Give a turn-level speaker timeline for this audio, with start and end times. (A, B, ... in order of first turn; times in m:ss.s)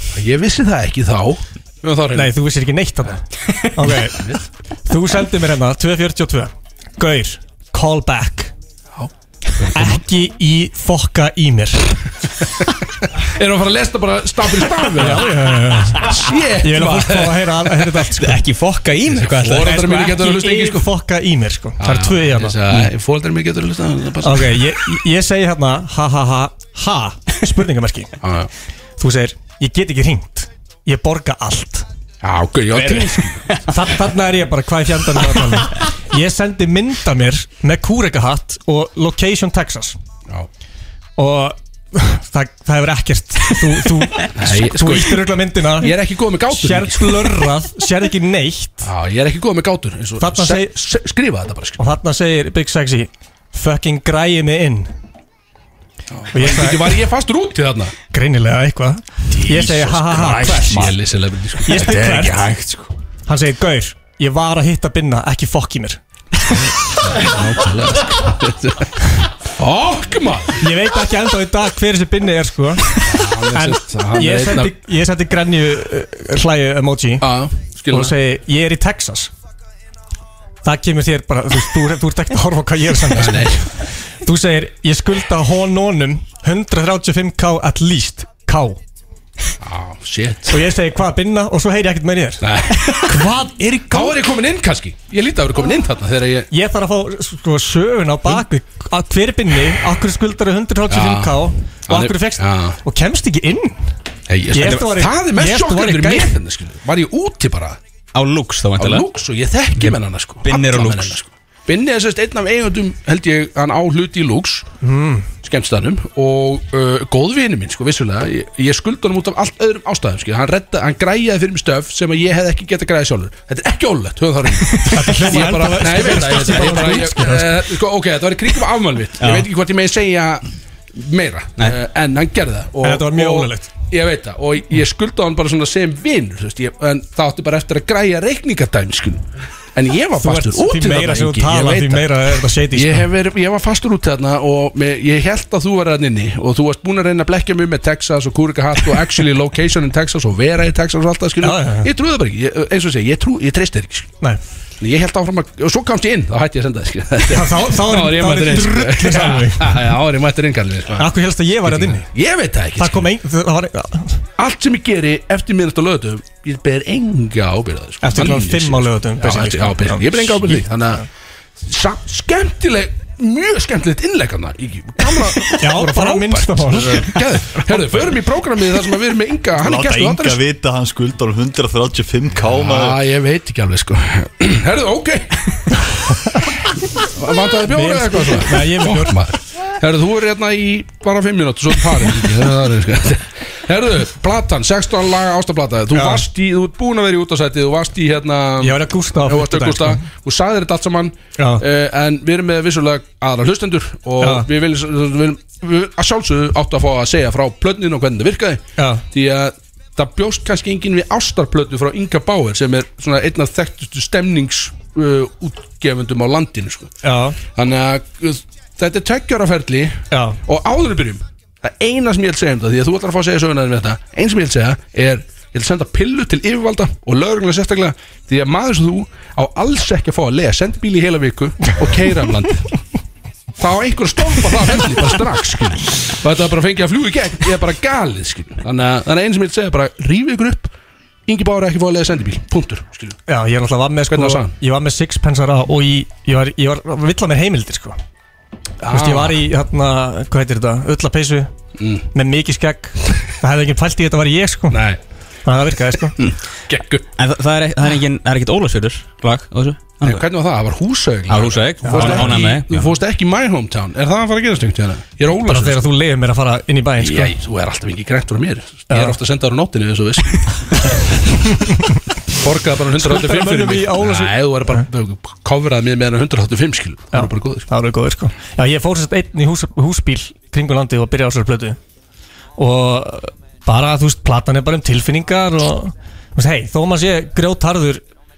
0:00.1-0:02.3 A
0:02.1-0:03.2 B
0:03.8-0:04.3 B
0:03.9-0:04.4 A
0:04.9-0:08.5 B
0:09.0-0:10.0 A
0:09.7-0:12.0 B
0:13.2-0:15.4 A
0:15.0-0:18.4 B
0:16.0-0:18.0 A
0:18.2-0:20.2 C
0:19.2-0:20.9 A
0:19.7-0:22.9 B
0:21.8-0:24.7 A
0:24.2-0:28.1 B
0:28.2-0:28.5 A
0:29.0-0:31.8 B
0:32.2-0:33.5 A
0:32.8-0:33.6 C
0:33.7-0:40.0 B
0:41.2-0:48.9 B
0:44.3-0:47.4 A
0:48.8-0:51.8 A
0:50.2-0:50.7 B
0:51.8-0:54.9 B
0:56.1-0:57.9 A
0:56.3-0:57.0 B
0:58.1-1:00.9 B
0:59.3-1:02.6 A
1:01.6-1:02.5 B
1:03.3-1:06.0 B
1:06.7-1:09.0 A
1:09.5-1:10.6 A
1:10.6-1:17.3 B
1:13.0-1:14.7 A
1:17.2-1:18.1 A
1:17.9-1:19.3 B
1:20.6-1:28.8 B
1:23.1-1:23.7 A
1:29.6-1:30.6 A
1:30.5-1:32.4 B
1:32.4-1:33.2 A
1:33.0-1:34.2 B
1:33.9-1:36.5 A
1:36.5-1:43.8 B
1:40.9-1:42.8 A
1:44.3-1:47.8 A
1:44.5-1:46.3 B
1:48.1-1:49.0 C
1:48.8-1:54.7 A
1:49.8-1:51.2 C
1:54.8-1:55.3 B
1:55.4-2:22.1 A
2:04.8-2:07.7 B
2:09.2-2:09.4 C
2:12.8-2:13.7 B
2:20.2-2:23.1 B
2:22.7-2:34.1 A
2:31.4-2:31.9 B
2:34.8-2:41.1 A
2:37.3-2:39.9 B
2:41.0-2:42.1 B
2:41.6-2:43.1 A
2:42.8-2:44.2 B
2:44.4-2:51.0 A
2:48.0-2:51.0 B
2:51.6-3:00.4 A
2:55.5-2:57.8 B
2:59.6-3:03.0 D
3:02.5-3:05.4 A
3:07.1-3:36.9 A
3:07.6-3:09.3 B
3:15.9-3:16.2 B
3:18.6-3:20.0 B
3:21.4-3:21.6 B
3:24.2-3:24.5 B
3:28.8-3:29.0 B
3:37.0-3:37.4 B
3:37.5-3:52.7 A
3:40.1-3:40.4 B
3:53.6-4:00.7 A
4:01.3-4:03.2 A
4:03.3-4:08.0 B
4:04.1-4:04.5 A
4:08.8-4:09.4 A
4:08.9-4:11.5 B
4:11.8-4:12.0 A
4:12.1-4:14.8 B
4:14.7-4:15.0 A
4:15.4-4:16.1 B
4:16.7-4:17.0 A
4:17.2-4:20.2 C
4:20.0-4:25.8 A
4:21.3-4:22.9 C
4:21.8-4:22.4 B
4:25.3-4:27.4 B
4:27.0-4:30.4 A
4:28.9-4:29.2 B
4:32.4-4:37.7 A
4:33.0-4:34.8 B
4:37.1-4:41.8 B
4:42.6-4:48.0 B